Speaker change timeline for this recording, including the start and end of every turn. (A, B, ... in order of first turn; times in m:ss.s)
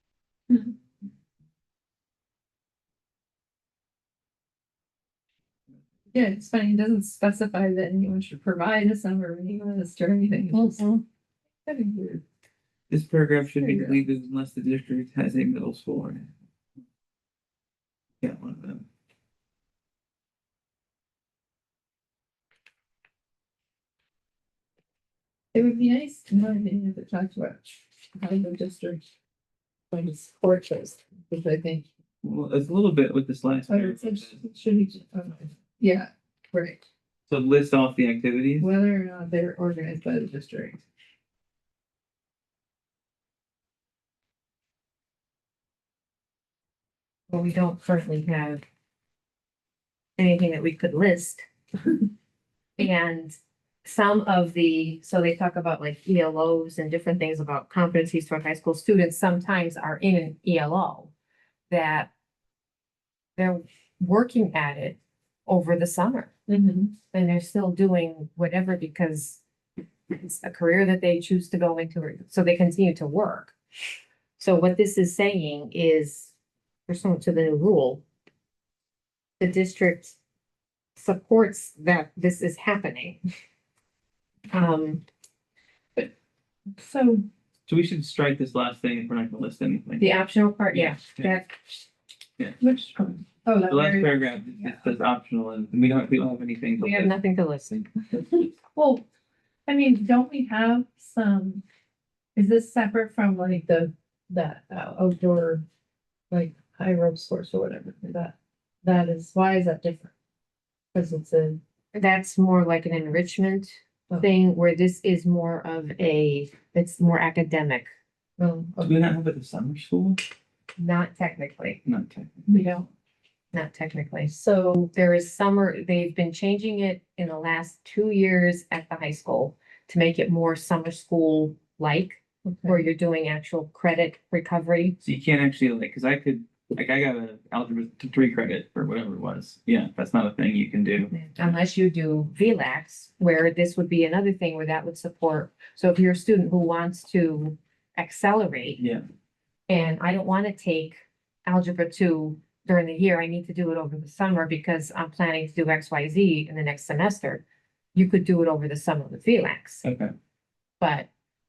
0:06.1-0:10.9 A
0:10.5-0:11.0 B
0:11.7-0:12.2 A
0:12.9-0:16.3 C
0:13.6-0:14.0 A
0:18.2-0:18.8 C
0:25.5-0:29.0 A
0:29.9-0:31.9 A
0:32.2-0:34.4 C
0:33.7-0:36.9 A
0:37.3-0:38.7 C
0:38.6-0:40.8 A
0:47.3-0:48.6 B
0:50.2-0:51.9 B
0:52.8-1:01.1 B
1:01.7-1:02.1 B
1:03.4-1:06.3 B
1:06.5-1:06.9 A
1:07.1-1:09.4 B
1:10.1-1:13.6 B
1:14.4-1:16.3 B
1:16.9-1:18.0 B
1:19.4-1:20.2 B
1:21.0-1:23.2 B
1:24.5-1:25.0 B
1:26.7-1:27.3 A
1:27.7-1:30.1 C
1:30.0-1:31.6 B
1:30.7-1:31.4 C
1:32.6-1:34.2 A
1:33.7-1:37.2 C
1:36.8-1:37.8 B
1:37.7-1:38.2 C
1:38.8-1:39.1 A
1:39.7-1:41.6 A
1:42.4-1:45.6 A
1:46.3-1:50.1 A
1:50.9-1:51.6 A
1:51.9-1:57.9 B
1:58.4-1:59.0 A
1:58.8-2:00.2 C
2:00.8-2:01.8 B
2:01.8-2:02.4 C
2:02.5-2:02.9 A
2:03.5-2:04.3 B
2:04.3-2:04.9 A
2:04.9-2:15.0 B
2:12.4-2:12.8 A
2:15.0-2:21.1 C
2:21.1-2:28.8 B
2:28.8-2:29.0 C
2:29.7-2:37.4 B
2:38.0-2:39.8 B
2:39.8-2:40.1 C
2:40.8-2:41.1 B